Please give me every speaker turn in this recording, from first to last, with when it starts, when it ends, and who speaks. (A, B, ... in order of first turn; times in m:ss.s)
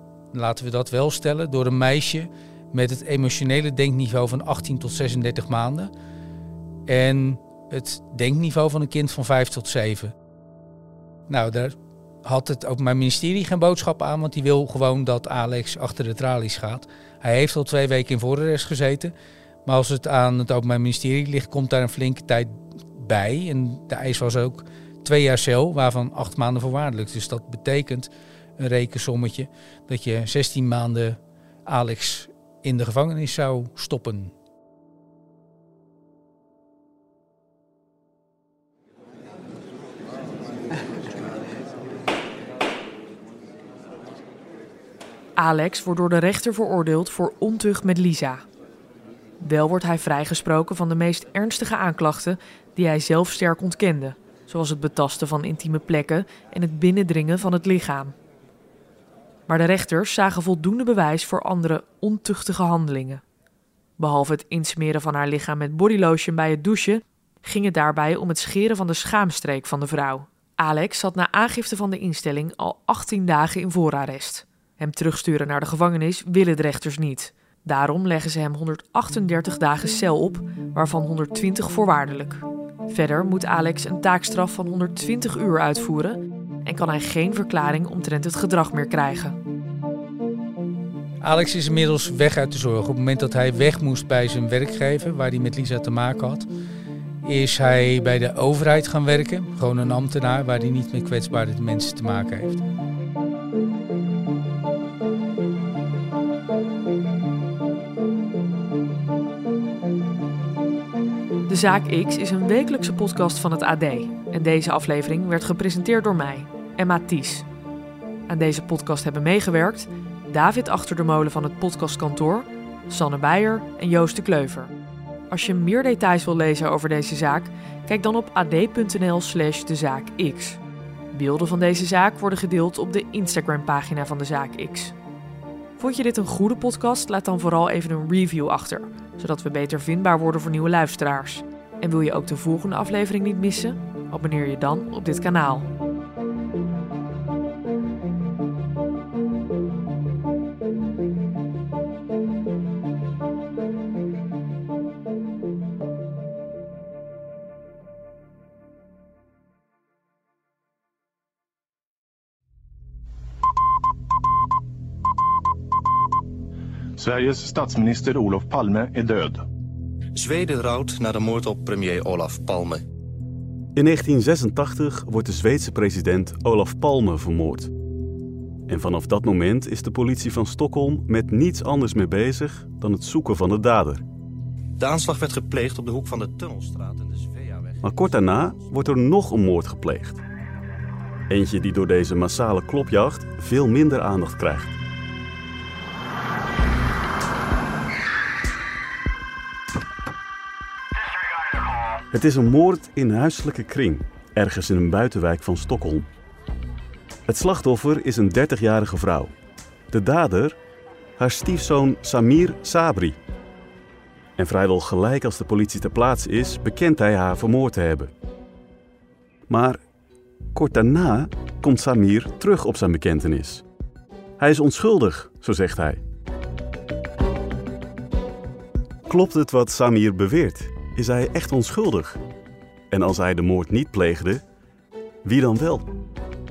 0:00.3-0:05.9 A
0:06.9-0:10.1 A
0:11.3-0:19.1 A
0:19.7-0:34.3 A
0:45.4-0:48.4 B
0:49.4-0:58.2 B
0:59.5-1:03.2 B
1:04.0-1:29.4 B
1:31.2-1:36.5 A
1:37.2-1:42.6 A
1:51.5-1:57.5 B
1:58.3-2:04.7 B
2:05.3-2:10.6 B
2:11.1-2:15.0 B
2:15.8-2:25.7 B
2:47.0-2:49.4 C
2:50.2-2:52.8 D
2:53.8-2:57.7 E
2:58.7-3:04.0 E
3:04.8-3:07.8 D
3:07.8-3:10.2 E
3:11.3-3:14.8 E
3:22.1-3:26.1 E
3:27.3-3:29.3 E
3:29.9-3:30.6 E
3:31.2-3:33.2 E
3:34.4-3:38.1 E
3:39.5-3:39.8 E
3:40.5-3:43.6 E
3:44.4-3:46.0 E
3:49.1-3:52.2 E
3:52.9-3:54.4 E
3:55.2-3:55.9 E